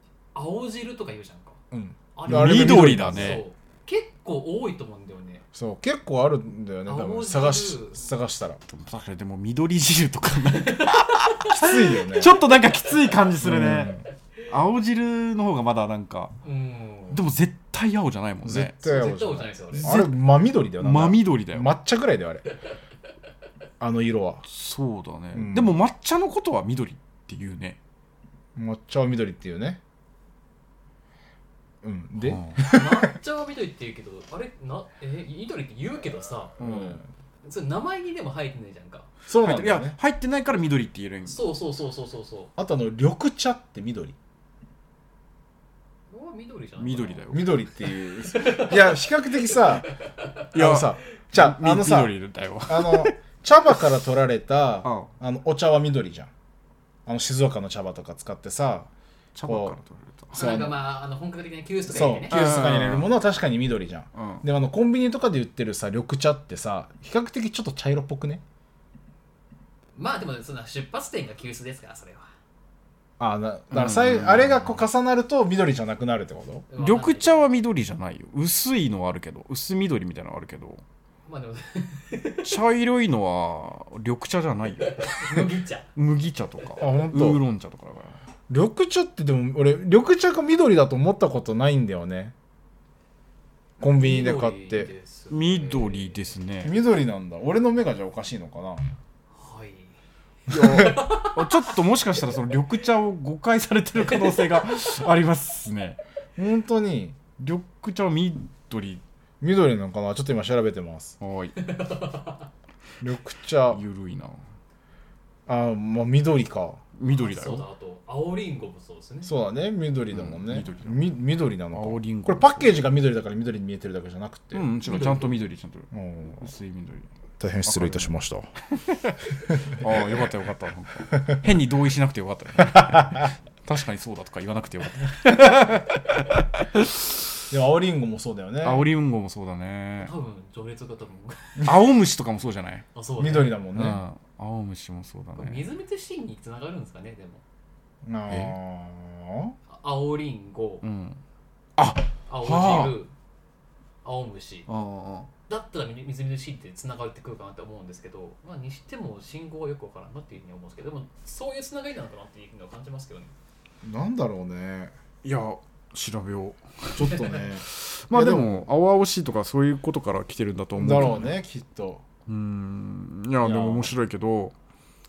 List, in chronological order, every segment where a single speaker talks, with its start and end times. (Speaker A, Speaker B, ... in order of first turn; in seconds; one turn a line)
Speaker A: 0.3-1.6
Speaker B: 1.7-3.4
Speaker A: 2.1-5.4
Speaker C: 2.2-3.4
Speaker B: 5.5-8.6
Speaker A: 6.8-8.1
Speaker C: 8.7-16.4
Speaker A: 10.5-13.1
Speaker B: 11.4-12.4
Speaker B: 13.4-14.1
Speaker A: 16.4-17.2
Speaker C: 17.1-18.7
Speaker B: 18.4-22.4
Speaker A: 18.8-19.9
Speaker C: 19.8-20.2
Speaker C: 20.8-21.7
Speaker B: 23.8-24.4
Speaker C: 24.4-27.8
Speaker B: 25.3-25.8
Speaker B: 28.5-29.8
Speaker B: 31.8-33.1
Speaker C: 32.2-32.6
Speaker A: 32.6-36.5
Speaker C: 36.6-37.0
Speaker B: 36.6-37.1
Speaker A: 37.4-39.1
Speaker B: 39.2-40.0
Speaker C: 39.4-41.4
Speaker A: 41.2-42.5
Speaker B: 42.6-44.1
Speaker A: 46.1-47.2
Speaker C: 46.8-47.6
Speaker B: 47.3-49.9
Speaker A: 48.3-49.0
Speaker A: 49.9-50.4
Speaker C: 50.5-53.1
Speaker B: 50.5-56.3
Speaker C: 54.8-55.1
Speaker B: 57.0-58.9
Speaker C: 59.3-60.5
Speaker B: 59.4-59.8
Speaker B: 60.3-60.8
Speaker A: 60.3-62.4
Speaker B: 61.9-68.4
Speaker C: 62.3-63.1
Speaker C: 64.1-64.4
Speaker A: 70.0-72.3
Speaker B: 73.2-76.7
Speaker C: 73.7-74.8
Speaker A: 76.7-77.5
Speaker C: 76.8-80.8
Speaker A: 81.3-82.6
Speaker C: 82.4-88.2
Speaker A: 84.8-85.9
Speaker B: 86.8-87.4
Speaker B: 88.5-92.3
Speaker B: 93.8-94.9
Speaker A: 94.0-96.3
Speaker C: 95.3-96.7
Speaker B: 96.6-98.8
Speaker A: 99.3-100.0
Speaker C: 100.5-106.0
Speaker A: 100.5-101.7
Speaker B: 100.6-100.9
Speaker A: 104.0-104.6
Speaker B: 106.4-107.2
Speaker C: 107.4-109.0
Speaker B: 109.4-111.2
Speaker C: 111.2-111.5
Speaker A: 111.6-112.5
Speaker B: 113.0-113.8
Speaker C: 113.7-114.4
Speaker B: 115.5-116.8
Speaker C: 117.0-117.6
Speaker A: 117.0-119.3
Speaker B: 119.2-124.7
Speaker C: 120.1-121.2
Speaker C: 121.7-122.8
Speaker C: 124.5-127.1
Speaker A: 124.8-125.3
Speaker B: 125.9-126.5
Speaker B: 127.4-128.5
Speaker C: 127.6-128.1
Speaker C: 128.7-137.1
Speaker B: 129.5-130.2
Speaker B: 137.5-138.9
Speaker C: 138.6-140.1
Speaker A: 140.0-141.7
Speaker C: 141.6-142.9
Speaker A: 142.9-143.6
Speaker B: 143.2-144.0
Speaker C: 143.7-145.6
Speaker A: 145.4-147.4
Speaker B: 148.0-149.6
Speaker C: 148.3-148.5
Speaker A: 149.7-150.8
Speaker C: 150.8-151.2
Speaker C: 151.8-152.9
Speaker A: 152.3-153.1
Speaker A: 154.0-154.7
Speaker C: 154.7-155.3
Speaker A: 155.5-163.3
Speaker B: 163.8-164.9
Speaker C: 165.2-171.3
Speaker B: 166.9-168.6
Speaker B: 170.8-172.0
Speaker C: 172.3-174.5
Speaker B: 173.4-173.9